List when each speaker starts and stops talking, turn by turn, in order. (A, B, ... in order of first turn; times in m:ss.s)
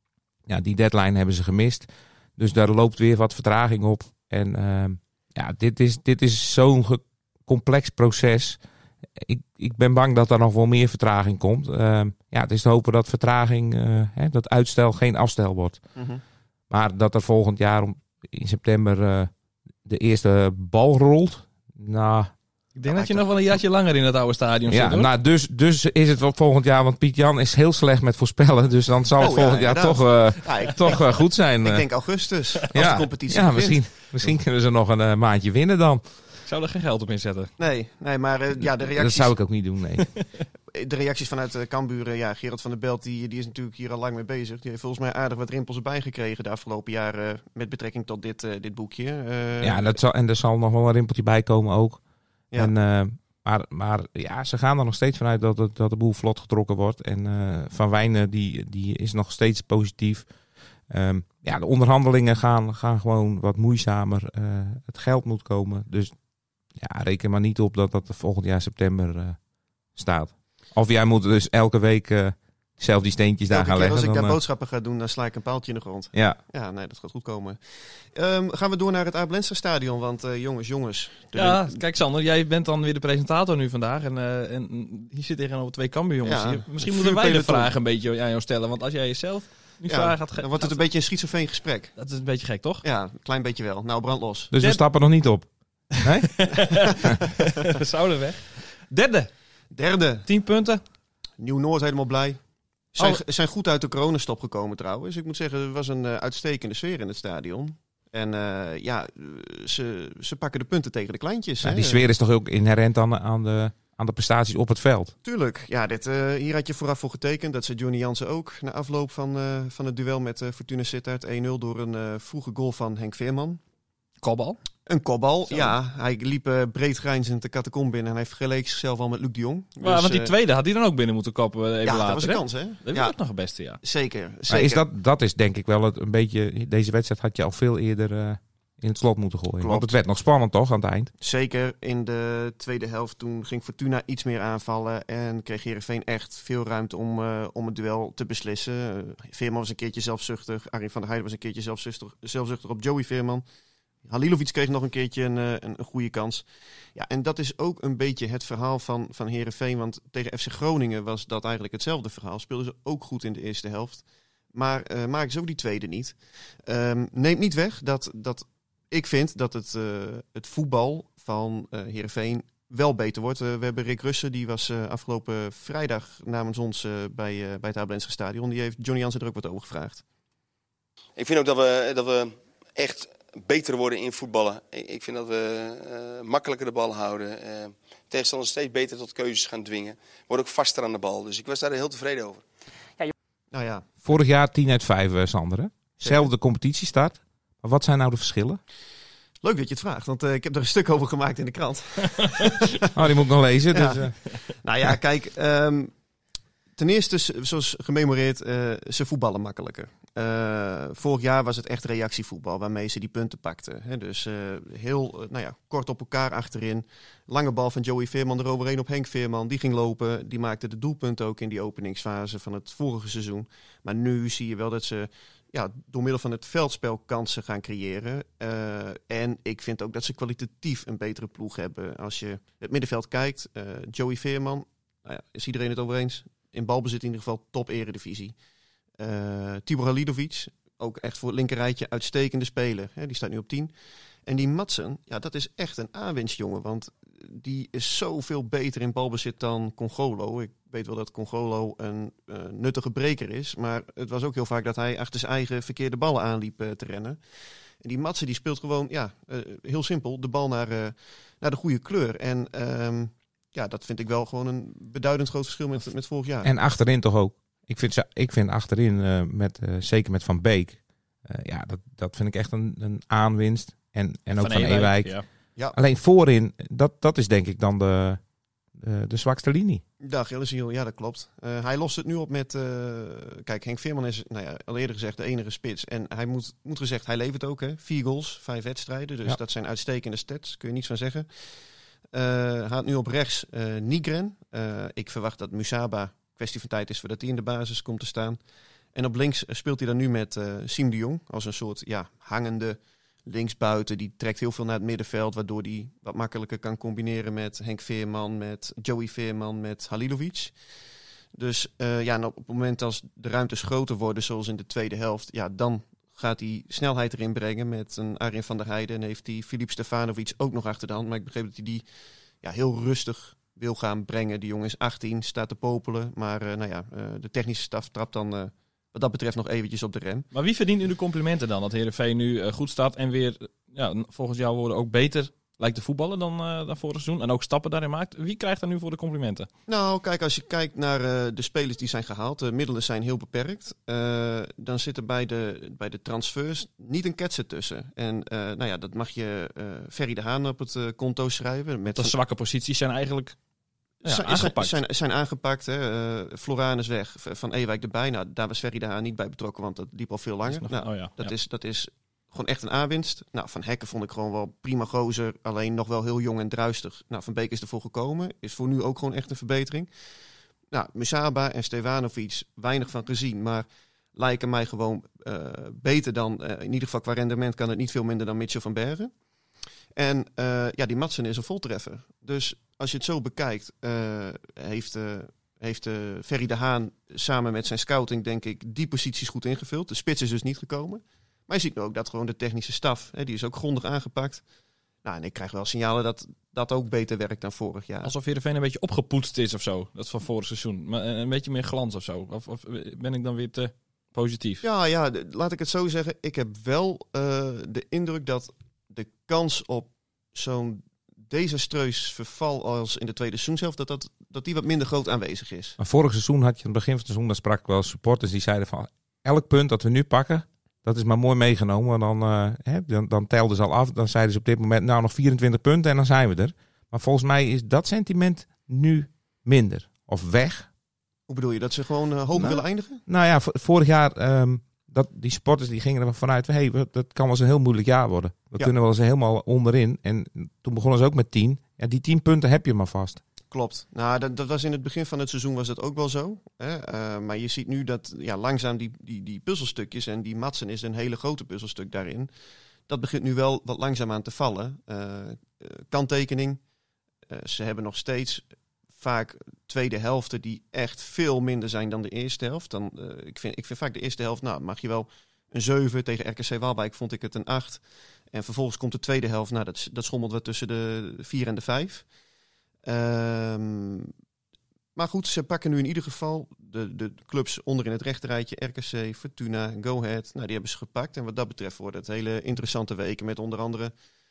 0:00.4-0:08.6 A
0:09.1-0:15.8 A
0:16.0-0:16.2 B
0:16.7-0:19.3 A
0:19.8-0:22.3 A
0:22.7-0:25.1 C
0:22.9-0:23.2 B
0:24.7-0:31.9 A
0:29.2-0:33.9 B
0:32.7-0:36.3 A
0:36.4-0:37.5 C
0:37.6-0:39.4 B
0:38.9-0:40.1 A
0:40.7-0:50.0 B
0:49.6-0:52.0 A
0:52.5-1:06.2 A
1:06.7-1:09.4 A
1:09.9-1:14.4 A
1:13.5-1:21.8 B
1:16.1-1:16.4 A
1:21.3-1:30.8 C
1:26.2-1:27.7 B
1:29.9-1:32.0 B
1:32.0-1:32.8 C
1:32.8-1:34.5 B
1:34.5-1:36.7 A
1:36.4-1:39.3 C
1:39.7-1:40.2 B
1:40.2-1:40.8 C
1:41.4-1:42.4 B
1:42.9-1:52.0 B
1:51.6-1:55.1 A
1:55.2-2:03.6 B
2:04.2-2:04.6 C
2:04.8-2:10.3 B
2:05.5-2:05.7 C
2:09.8-2:13.8 C
2:11.8-2:13.2 B
2:13.8-2:14.8 B
2:14.5-2:21.1 A
2:19.6-2:19.9 B
2:21.2-2:33.4 B
2:34.0-3:00.0 B
3:01.2-3:12.4 D
3:13.5-3:13.8 B
3:14.0-3:18.6 A
3:16.0-3:16.3 B
3:19.4-3:22.8 B
3:22.9-3:24.1 A
3:23.7-3:25.9 B
3:26.8-3:58.4 B
3:59.0-4:03.7 B
4:04.2-4:17.2 B
4:17.8-4:26.5 B
4:26.4-4:35.1 A
4:34.4-4:35.2 C
4:35.7-4:38.2 A
4:38.8-4:39.8 A
4:40.0-4:58.4 B
4:58.9-5:10.5 B
5:11.3-5:21.8 B
5:22.4-5:30.3 B
5:30.3-5:39.5 C
5:39.7-5:52.1 B
5:51.9-5:53.4 C
5:54.0-6:09.9 B
5:54.0-5:54.8 C
6:00.5-6:01.3 C
6:10.7-6:19.1 B
6:19.9-6:34.4 B
6:35.0-6:38.1 B
6:38.0-6:44.6 C
6:44.6-6:55.8 B
6:55.8-7:10.7 A
7:11.3-7:13.0 B
7:12.3-7:23.2 A
7:23.5-7:32.3 B
7:32.9-7:36.6 B
7:37.3-7:38.4 B
7:38.9-7:52.0 B
7:52.8-7:54.1 B
7:54.9-8:03.9 B